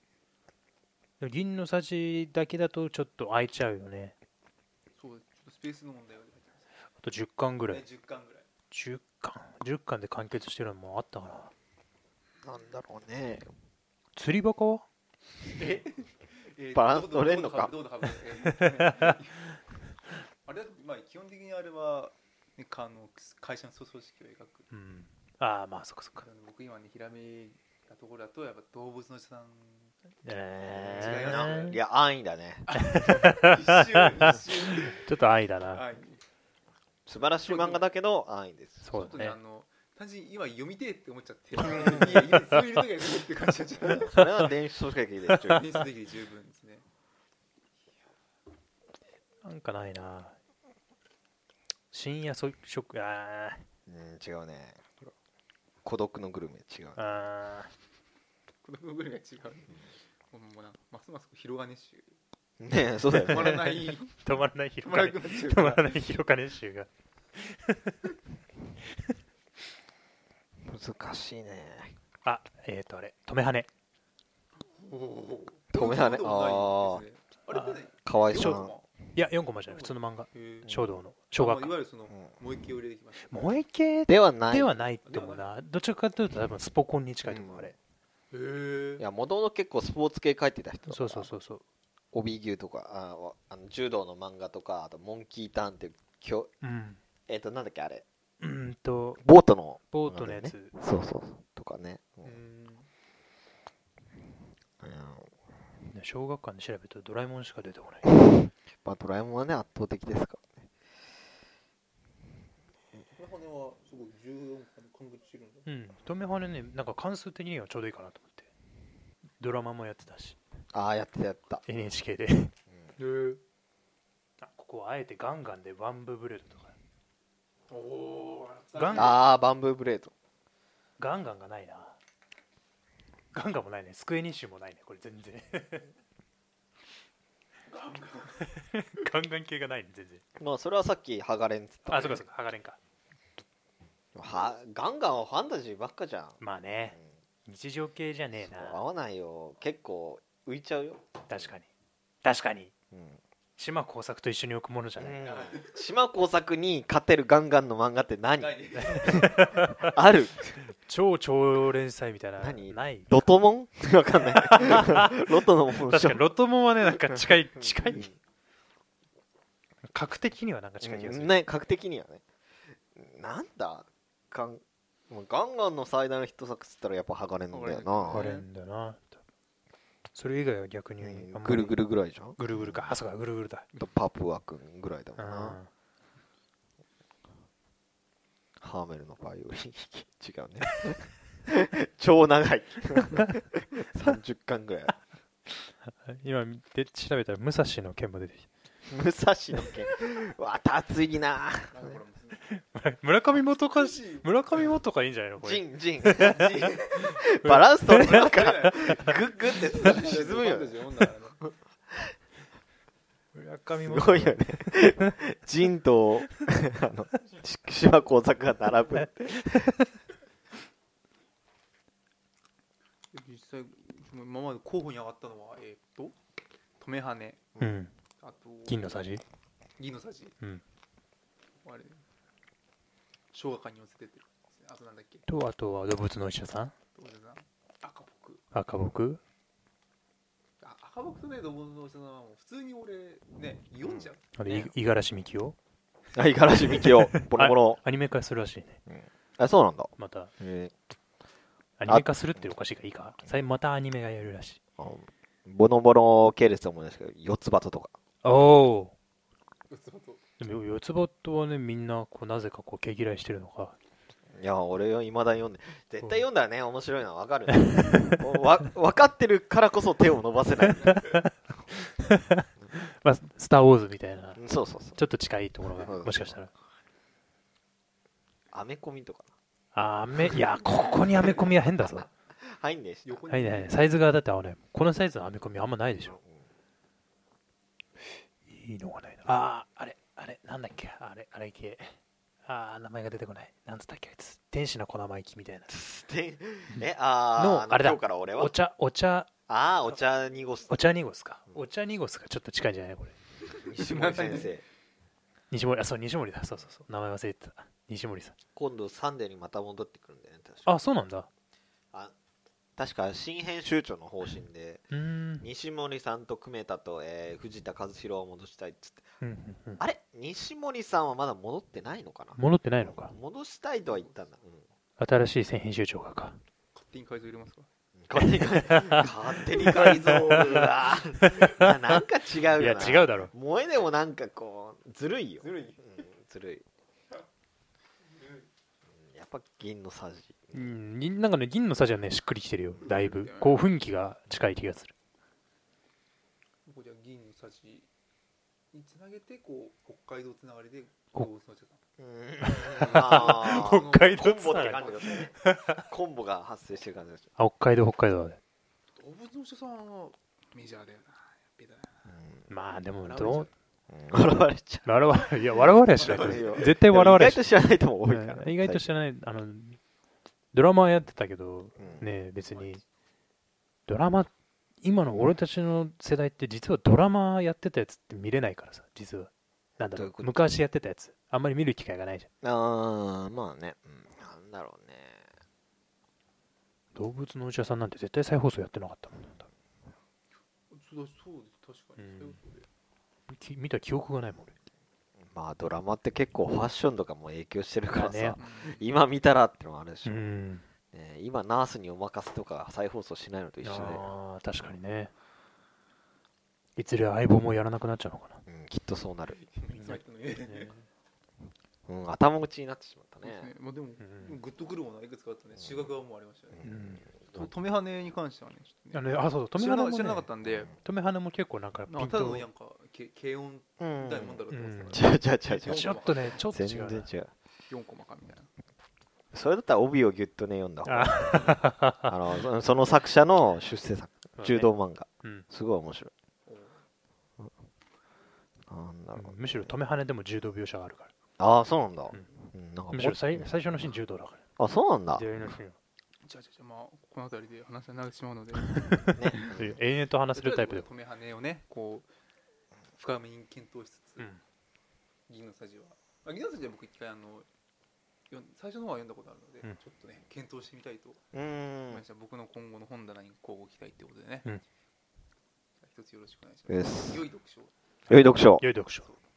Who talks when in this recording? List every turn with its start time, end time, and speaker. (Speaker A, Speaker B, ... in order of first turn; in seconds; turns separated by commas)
Speaker A: 1.2-4.2, Speaker B: 5.0-6.7, Speaker A: 7.0-7.8, Speaker B: 7.7-8.5, Speaker A: 8.7-11.5, Speaker C: 12.4-13.5, Speaker A: 14.1-14.8, Speaker B: 15.6-19.5, Speaker C: 16.7-17.7, Speaker A: 18.8-19.1, Speaker B: 20.4-24.7, Speaker A: 24.7-26.2, Speaker B: 26.2-29.9, Speaker A: 30.2-31.8, Speaker B: 30.7-31.8, Speaker C: 30.9-33.1, Speaker A: 32.7-34.3, Speaker B: 32.7-35.0, Speaker A: 34.9-35.8, Speaker B: 35.7-36.2, Speaker C: 37.1-38.9, Speaker B: 37.4-37.9, Speaker A: 38.8-39.4, Speaker B: 38.9-44.2, Speaker C: 44.0-45.6, Speaker B: 45.4-46.9, Speaker A: 49.4-50.4, Speaker A: 51.9-53.6, Speaker C: 53.9-54.8, Speaker C: 55.8-57.0, Speaker A: 57.0-57.7, Speaker B: 58.6-62.2, Speaker C: 62.6-63.6, Speaker A: 63.2-68.0, Speaker B: 63.2-66.0, Speaker C: 70.7-71.9, Speaker A: 72.2-73.7, Speaker B: 74.7-78.9, Speaker C: 75.7-77.0, Speaker A: 77.5-78.6, Speaker C: 78.1-78.8, Speaker A: 79.1-81.8, Speaker B: 79.7-80.8, Speaker B: 81.3-83.5, Speaker A: 83.3-87.8, Speaker C: 84.1-84.8, Speaker B: 85.0-85.5, Speaker C: 87.2-87.7, Speaker B: 88.3-89.0, Speaker C: 89.0-91.3, Speaker A: 90.9-91.6, Speaker C: 92.1-96.5, Speaker A: 96.6-97.0, Speaker C: 97.3-98.0, Speaker A: 98.4-99.2, Speaker C: 99.2-102.3, Speaker A: 99.9-100.7, Speaker B: 102.2-102.9, Speaker C: 104.8-105.3, Speaker A: 105.9-108.2, Speaker C: 108.2-110.5, Speaker B: 113.2-115.7, Speaker A: 115.7-118.5, Speaker A: 119.4-120.4, Speaker C: 120.7-121.6, Speaker A: 121.7-122.5, Speaker B: 123.0-123.4, Speaker A: 124.4-126.7, Speaker B: 127.7-129.2, Speaker A: 128.8-129.1, Speaker C: 128.9-130.1, Speaker A: 131.0-132.0, Speaker A: 133.3-135.9, Speaker B: 137.7-138.4, Speaker A: 138.4-140.2, Speaker C: 140.4-142.2, Speaker A: 141.9-142.8, Speaker C: 144.2-146.4, Speaker A: 146.4-148.8, Speaker C: 148.4-151.5, Speaker A: 151.3-151.7, Speaker A: 152.2-152.7, Speaker C: 152.9-153.2, Speaker A: 153.6-155.2, Speaker C: 155.0-160.5, Speaker B: 155.2-155.8, Speaker B: 158.4-159.4, Speaker A: 159.0-159.9, Speaker A: 160.7-163.3, Speaker C: 162.4-166.2, Speaker A: 164.3-168.1, Speaker C: 167.1-168.1, Speaker A: 169.8-171.3, Speaker C: 170.8-172.2, Speaker C: 172.9-178.3, Speaker B: 177.5-178.5, Speaker A: 178.1-179.2, Speaker A: 180.1-181.8, Speaker C: 181.0-182.9, Speaker A: 182.3-183.7, Speaker C: 183.8-185.6, Speaker A: 185.2-185.7, Speaker C: 188.6-194.9, Speaker A: 195.6-198.5, Speaker C: 198.9-201.9, Speaker B: 201.7-202.4, Speaker A: 202.4-206.7, Speaker B: 203.3-204.4, Speaker C: 205.4-206.4, Speaker B: 206.2-207.2, Speaker C: 207.0-210.7, Speaker A: 207.4-209.1, Speaker B: 208.2-211.4, Speaker A: 213.3-215.1, Speaker C: 213.8-219.7, Speaker A: 219.3-219.8, Speaker B: 223.1-226.2, Speaker B: 226.8-227.4, Speaker A: 227.6-227.9, Speaker B: 228.2-228.9, Speaker A: 228.7-229.2, Speaker B: 229.8-230.4, Speaker B: 231.6-232.0, Speaker B: 233.3-235.2, Speaker A: 235.3-236.7, Speaker B: 236.9-238.4, Speaker A: 238.5-239.2, Speaker B: 240.6-244.3, Speaker C: 243.8-244.7, Speaker A: 244.4-245.6, Speaker C: 246.1-247.8, Speaker A: 246.8-248.8, Speaker C: 248.9-250.7, Speaker A: 250.0-250.3, Speaker A: 251.8-254.6, Speaker C: 251.9-252.5, Speaker C: 254.8-257.9, Speaker A: 258.2-258.9, Speaker B: 259.7-260.2, Speaker A: 260.4-263.8, Speaker C: 264.3-271.0, Speaker A: 267.5-268.2, Speaker A: 270.8-274.4, Speaker C: 274.4-275.0, Speaker A: 275.0-276.5, Speaker C: 275.8-276.4, Speaker C: 278.5-279.3, Speaker A: 279.8-282.1, Speaker C: 281.9-283.2, Speaker B: 283.1-284.0, Speaker A: 283.3-286.2, Speaker C: 286.1-286.4, Speaker A: 288.5-291.9, Speaker A: 292.4-295.7, Speaker C: 295.7-298.5, Speaker A: 297.4-299.3, Speaker C: 299.5-300.9, Speaker A: 300.7-303.2, Speaker C: 303.6-304.6, Speaker B: 303.7-304.6, Speaker A: 305.5-308.4, Speaker C: 308.6-310.7, Speaker A: 310.6-311.3, Speaker C: 312.8-319.1, Speaker A: 314.9-315.5, Speaker A: 319.2-319.8, Speaker C: 319.8-324.6, Speaker A: 322.4-323.1, Speaker B: 323.8-324.2, Speaker A: 325.0-326.4, Speaker B: 326.7-327.7, Speaker C: 328.0-336.6, Speaker A: 328.7-329.1, Speaker A: 329.7-330.3, Speaker B: 329.9-330.9, Speaker A: 331.2-331.7, Speaker A: 332.5-333.3, Speaker B: 335.4-335.8, Speaker B: 338.2-338.5, Speaker C: 339.0-340.7, Speaker A: 340.5-344.9, Speaker B: 342.9-343.7, Speaker B: 346.6-347.9, Speaker B: 348.7-351.8, Speaker C: 352.0-357.2, Speaker A: 352.4-355.8, Speaker B: 352.8-355.1, Speaker A: 357.4-358.4, Speaker B: 359.0-361.9, Speaker C: 362.1-362.5, Speaker A: 362.5-363.5, Speaker B: 363.0-363.5, Speaker C: 363.9-364.9, Speaker A: 364.9-367.4, Speaker B: 365.9-366.8, Speaker C: 366.1-368.9, Speaker A: 368.0-369.8, Speaker A: 370.5-372.8, Speaker C: 371.8-372.1, Speaker B: 372.5-372.8, Speaker A: 373.9-374.3, Speaker A: 374.8-382.3, Speaker C: 379.8-380.4, Speaker C: 382.4-385.2, Speaker A: 386.9-389.5, Speaker B: 390.7-392.7, Speaker A: 392.0-392.4, Speaker A: 393.3-394.5, Speaker C: 395.2-400.2, Speaker A: 397.9-398.4, Speaker B: 398.4-398.9, Speaker A: 400.0-400.6, Speaker C: 400.9-404.1, Speaker A: 403.6-405.1, Speaker A: 406.8-408.4, Speaker C: 408.5-409.4, Speaker B: 409.3-410.7, Speaker A: 409.8-410.9, Speaker C: 411.9-413.5, Speaker B: 413.2-416.6, Speaker A: 414.0-414.4, Speaker C: 416.6-417.5, Speaker A: 416.6-417.1, Speaker B: 417.2-420.7, Speaker A: 418.9-422.5, Speaker B: 421.9-426.4, Speaker C: 423.8-427.3, Speaker A: 424.5-427.1, Speaker B: 427.7-428.5, Speaker C: 429.3-436.1, Speaker A: 430.9-432.1, Speaker A: 434.4-435.5, Speaker B: 436.5-436.8, Speaker C: 438.7-439.7, Speaker A: 439.1-441.1, Speaker C: 441.4-443.6, Speaker A: 442.9-444.4, Speaker C: 444.6-445.2, Speaker A: 445.1-445.8, Speaker B: 446.2-449.6, Speaker A: 448.9-450.9, Speaker C: 449.1-449.8, Speaker B: 450.3-452.1, Speaker B: 453.0-454.3, Speaker B: 455.3-457.5, Speaker B: 458.3-461.2, Speaker C: 461.3-462.0, Speaker B: 461.9-464.5, Speaker B: 465.8-467.7, Speaker C: 466.7-467.2, Speaker C: 468.1-468.7, Speaker A: 468.1-469.1